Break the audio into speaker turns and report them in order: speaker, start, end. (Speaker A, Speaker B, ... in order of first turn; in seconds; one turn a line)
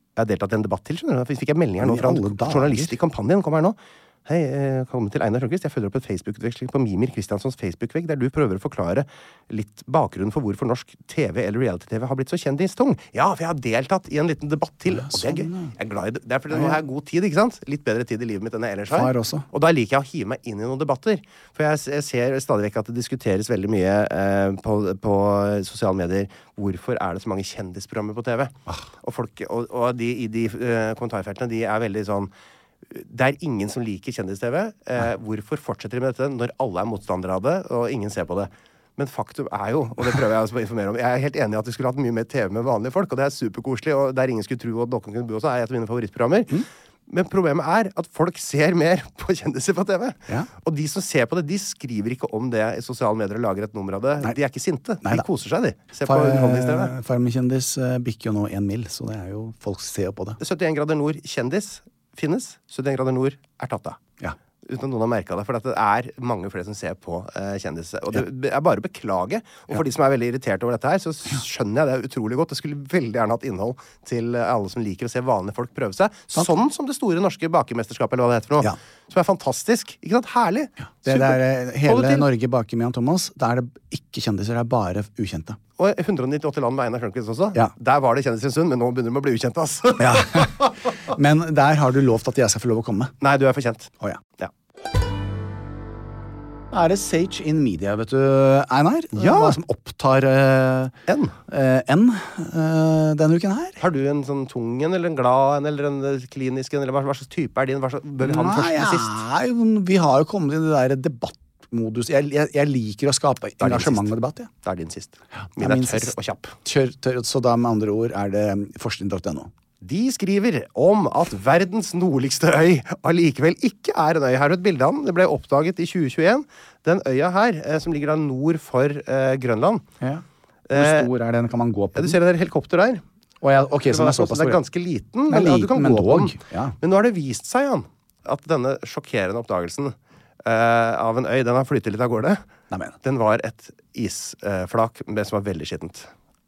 Speaker A: 0.1-32.3
Speaker B: 1.8-3.0
Speaker B: 14.9-15.7
Speaker B: 16.5-16.8
Speaker B: 18.9-19.5
Speaker A: 32.9-56.9
Speaker B: 56.0-60.4
Speaker A: 60.4-64.0
Speaker A: 64.6-82.2
Speaker B: 81.0-85.6
Speaker A: 85.8-90.7
Speaker B: 90.0-90.5
Speaker B: 91.1-93.1
Speaker A: 93.2-94.5
Speaker B: 96.7-100.9
Speaker A: 99.2-99.6
Speaker A: 101.1-101.3
Speaker B: 101.5-103.8
Speaker A: 103.8-109.2
Speaker B: 108.2-114.5
Speaker A: 113.6-114.1
Speaker A: 114.6-116.5
Speaker B: 115.6-116.1
Speaker B: 116.6-119.5
Speaker A: 119.8-129.8
Speaker B: 130.0-132.2
Speaker A: 130.7-131.1
Speaker A: 131.9-133.0
Speaker B: 133.4-134.6
Speaker A: 133.9-142.4
Speaker B: 135.3-136.8
Speaker A: 143.0-146.1